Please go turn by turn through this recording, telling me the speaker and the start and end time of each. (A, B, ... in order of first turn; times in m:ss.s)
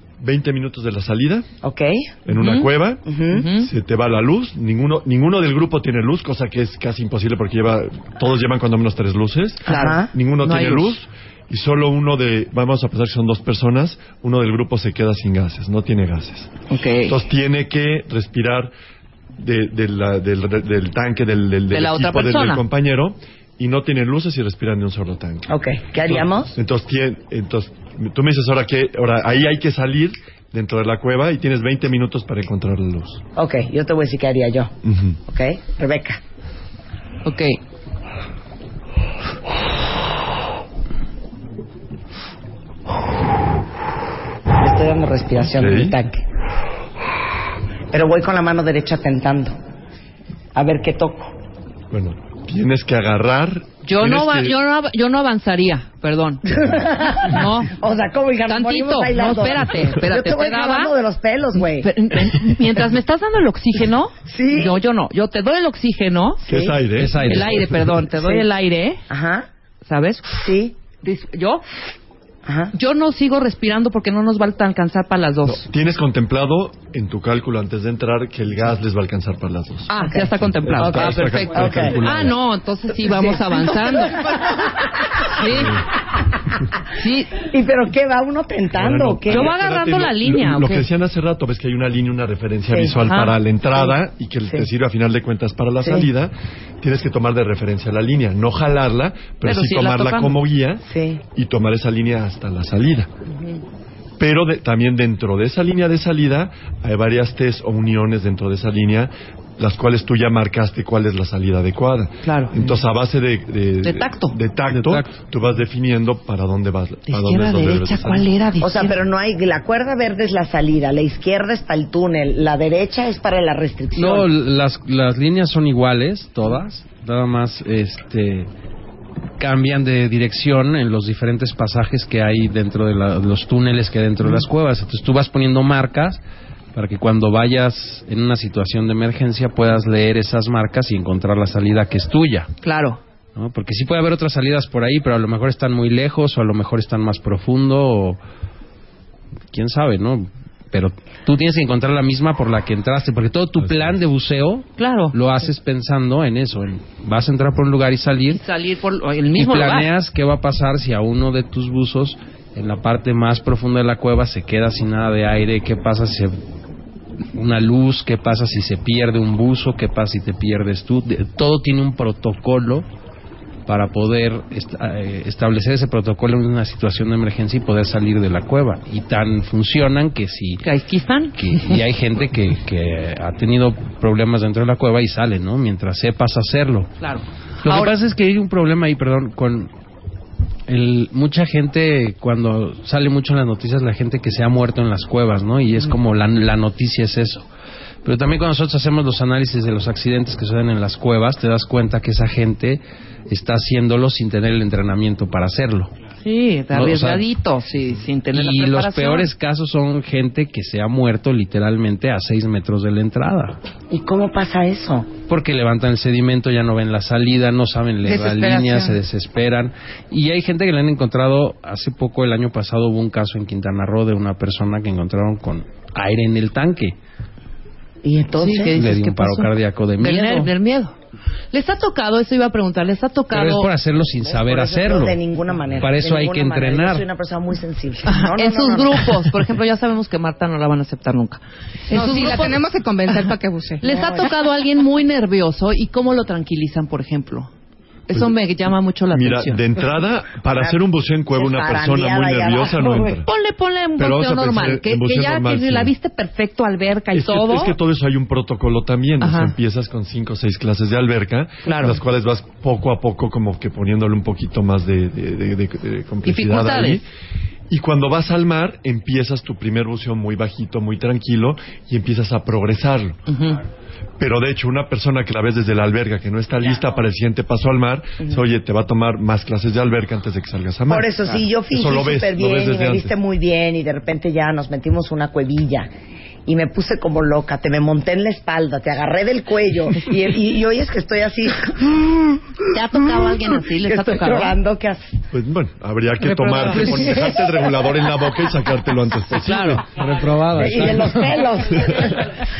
0:00.2-0:01.5 A
0:01.6-0:02.2 B
0:02.2-0:03.0 A
0:02.4-0:02.7 C
0:03.0-0:03.5 B
0:03.3-0:03.7 C
0:03.6-0:16.5 A
0:09.6-0:11.0 C
0:09.7-0:10.1 B
0:16.7-0:17.2 C
0:17.0-0:18.7 A
0:19.4-0:25.5 A
0:21.7-0:22.6 C
0:25.5-0:26.6 B
0:26.0-0:33.2 A
0:33.4-0:34.7 B
0:34.8-0:35.2 A
0:35.3-0:36.2 B
0:37.2-0:37.6 C
0:44.6-0:46.2 B
0:45.5-0:46.0 A
0:47.9-0:49.6 B
0:50.6-0:51.3 B
0:51.9-0:54.6 A
0:53.8-0:57.7 C
0:56.5-1:01.9 B
0:58.5-1:00.9 C
1:01.8-1:06.4 C
1:04.3-1:04.8 B
1:06.4-1:06.8 B
1:06.5-1:07.9 A
1:07.0-1:07.7 D
1:07.2-1:09.0 C
1:08.1-1:08.4 B
1:09.1-1:09.4 B
1:09.8-1:10.2 C
1:10.3-1:10.7 B
1:11.0-1:11.6 C
1:12.4-1:12.7 B
1:12.7-1:15.6 C
1:15.4-1:22.4 A
1:19.9-1:24.6 C
1:19.9-1:22.0 B
1:23.0-1:23.8 B
1:25.2-1:25.8 C
1:25.5-1:25.8 A
1:26.9-1:27.4 C
1:27.5-1:29.5 B
1:28.7-1:43.1 A
1:29.3-1:30.9 C
1:32.7-1:32.9 B
1:33.0-1:33.4 C
1:39.4-1:40.4 C
1:40.8-1:41.2 B
1:44.2-1:58.3 A
1:52.2-1:52.6 C
1:53.8-1:54.4 C
1:54.7-1:55.1 D
1:57.1-1:59.0 C
1:58.6-2:04.3 B
2:04.0-2:08.5 D
2:09.4-2:16.2 D
2:16.7-2:22.5 D
2:22.6-2:23.0 C
2:23.3-2:28.2 D
2:29.5-2:38.4 D
2:33.6-2:33.9 A
2:34.8-2:35.1 C
2:38.3-2:39.9 C
2:39.4-2:46.4 D
2:47.3-2:52.9 D
2:53.7-3:00.6 D
3:00.6-3:01.8 C
3:01.4-3:06.9 D
3:07.0-3:07.9 C
3:07.6-3:09.7 D
3:10.7-3:17.4 D
3:18.0-3:25.9 D
3:26.2-3:29.3 C
3:26.7-3:27.2 D
3:28.3-3:33.6 D
3:33.9-3:35.1 B
3:35.3-3:47.0 D
3:38.2-3:38.8 C
3:48.0-3:48.7 B
3:48.4-3:50.9 C
3:48.7-3:50.5 D
3:51.5-3:53.7 C
3:53.3-3:55.2 D
3:54.1-3:59.2 B
3:55.8-3:57.0 D
3:58.1-4:02.6 C
4:01.9-4:04.2 E
4:03.8-4:07.5 C
4:08.1-4:09.6 C
4:09.1-4:13.3 A
4:11.3-4:13.2 B
4:13.2-4:17.8 C
4:14.0-4:15.9 A
4:17.1-4:27.0 A
4:19.2-4:19.5 C
4:21.6-4:22.0 C
4:26.2-4:27.0 C
4:27.7-4:33.2 A
4:33.3-4:33.6 C
4:34.2-4:43.1 A
4:40.9-4:45.9 B
4:46.4-4:55.2 B
4:52.7-4:54.6 C
4:55.3-4:59.9 A
4:56.3-4:57.2 D
4:59.4-5:01.5 D
5:00.6-5:02.3 B